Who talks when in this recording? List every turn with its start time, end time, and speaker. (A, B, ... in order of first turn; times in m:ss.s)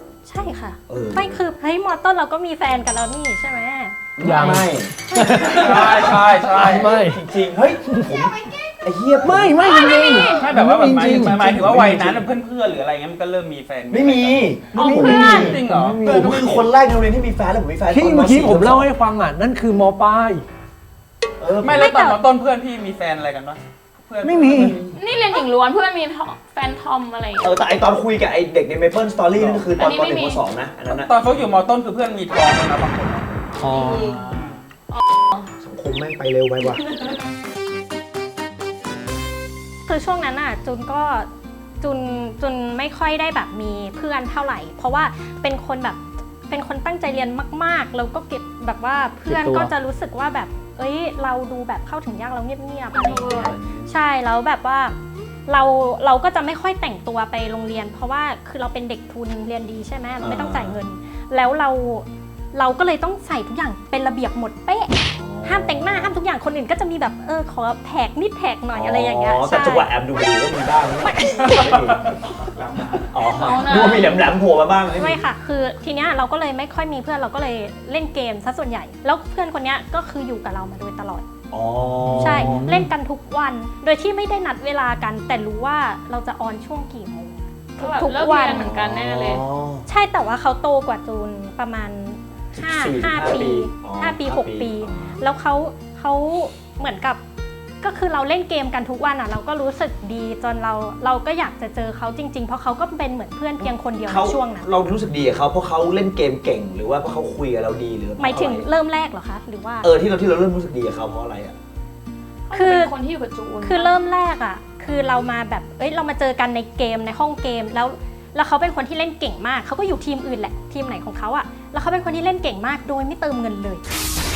0:00.2-0:04.0 A
0:00.9-0:01.4 B
0:04.2-0:05.5 B
0:04.2-0:07.2 C
0:05.1-0:05.5 A
0:05.5-0:07.0 D
0:07.0-0:09.6 B
0:07.8-0:08.1 C
0:09.2-0:11.7 C
0:09.6-0:10.5 E
0:10.3-0:16.7 D
0:11.1-0:12.2 B
0:13.9-0:18.9 B
0:14.7-0:16.4 C
0:14.7-0:15.6 E
0:17.9-0:20.4 C
0:21.4-0:21.9 B
0:21.6-0:24.8 D
0:21.7-0:22.2 A
0:24.2-0:24.8 C
0:24.4-0:25.0 B
0:24.9-0:27.5 E
0:27.4-0:31.1 B
0:29.3-0:29.7 D
0:29.8-0:30.4 E
0:30.9-0:33.4 D
0:33.6-0:34.2 C
0:34.2-0:34.6 D
0:34.9-0:35.5 E
0:35.6-0:36.8 B
0:39.9-0:41.3 A
0:41.8-0:55.0 A
0:49.2-0:49.7 C
0:52.9-0:53.5 E
0:53.3-0:53.9 B
0:55.5-1:09.9 A
1:00.2-1:00.8 B
1:05.1-1:06.1 B
1:08.7-1:12.1 B
1:11.0-1:11.9 A
1:12.6-1:13.1 D
1:13.0-1:15.2 B
1:13.3-1:14.3 E
1:14.9-1:21.2 A
1:21.5-1:22.6 B
1:22.0-1:22.9 C
1:22.2-1:28.7 A
1:27.8-1:29.4 E
1:28.4-1:29.8 B
1:29.9-1:37.2 A
1:32.6-1:35.2 B
1:37.8-1:44.7 A
1:43.6-1:48.6 B
1:48.2-1:49.9 A
1:49.8-1:51.5 B
1:52.5-1:53.9 E
1:52.5-1:52.9 A
1:53.6-2:03.8 A